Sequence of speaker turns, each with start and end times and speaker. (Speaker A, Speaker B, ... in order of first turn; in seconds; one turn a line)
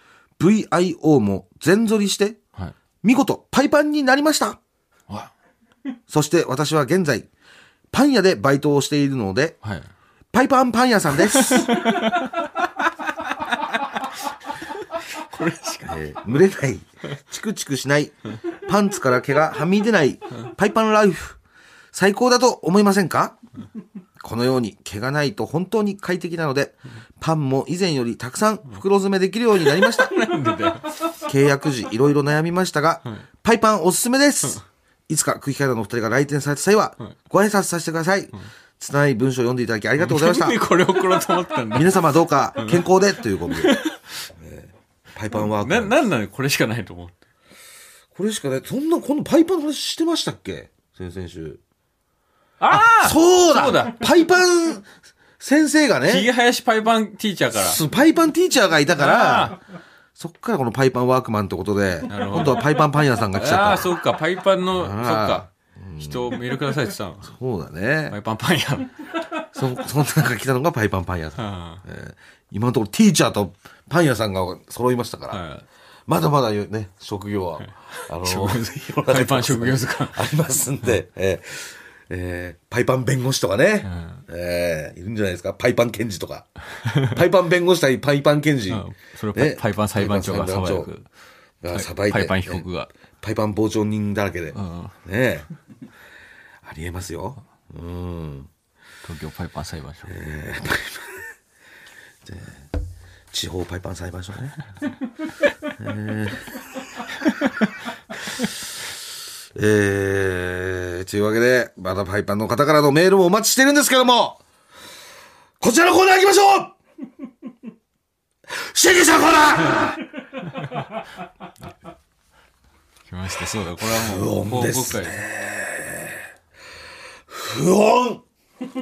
Speaker A: 0.4-2.4
Speaker A: 3.0-4.6
Speaker A: 6.1-7.3
Speaker A: 7.9-9.6
Speaker B: 9.6-9.9
Speaker A: 10.3-11.8
Speaker B: 11.2-12.7
Speaker B: 13.4-13.9
Speaker B: 15.2-16.1
Speaker A: 15.8-21.4
Speaker A: 21.9-23.4
Speaker A: 24.2-30.2
Speaker B: 29.6-31.1
Speaker A: 31.2-40.6
Speaker B: 40.0-42.0
Speaker A: 41.7-43.8
Speaker B: 42.6-42.9
Speaker B: 43.5-44.0
Speaker A: 44.3-46.0
Speaker B: 45.3-47.1
Speaker A: 48.1-51.6
Speaker B: 52.6-54.0
Speaker A: 52.7-54.9
Speaker A: 55.4-56.3
Speaker B: 56.0-57.8
Speaker A: 57.5-59.6
Speaker B: 59.0-59.6
Speaker A: 60.1-63.9
Speaker B: 62.1-67.3
Speaker A: 64.7-66.5
Speaker A: 67.2-68.2
Speaker B: 68.1-69.1
Speaker A: 69.5-75.4
Speaker B: 71.4-71.8
Speaker B: 75.3-75.6
Speaker A: 76.1-86.5
Speaker B: 77.6-80.3
Speaker B: 83.8-84.2
Speaker B: 86.8-87.2
Speaker A: 87.0-90.9
Speaker B: 88.7-91.1
Speaker A: 91.6-92.6
Speaker B: 91.7-92.9
Speaker A: 93.2-95.5
Speaker B: 94.5-94.9
Speaker A: 96.6-98.5
Speaker B: 99.0-100.1
Speaker A: 100.0-101.3
Speaker A: 102.2-102.6
Speaker A: 103.3-104.6
Speaker A: 105.7-106.6
Speaker A: 109.5-114.4
Speaker A: 115.6-116.7
Speaker A: 118.5-120.0
Speaker B: 123.1-125.2
Speaker A: 123.8-126.2
Speaker A: 127.3-128.2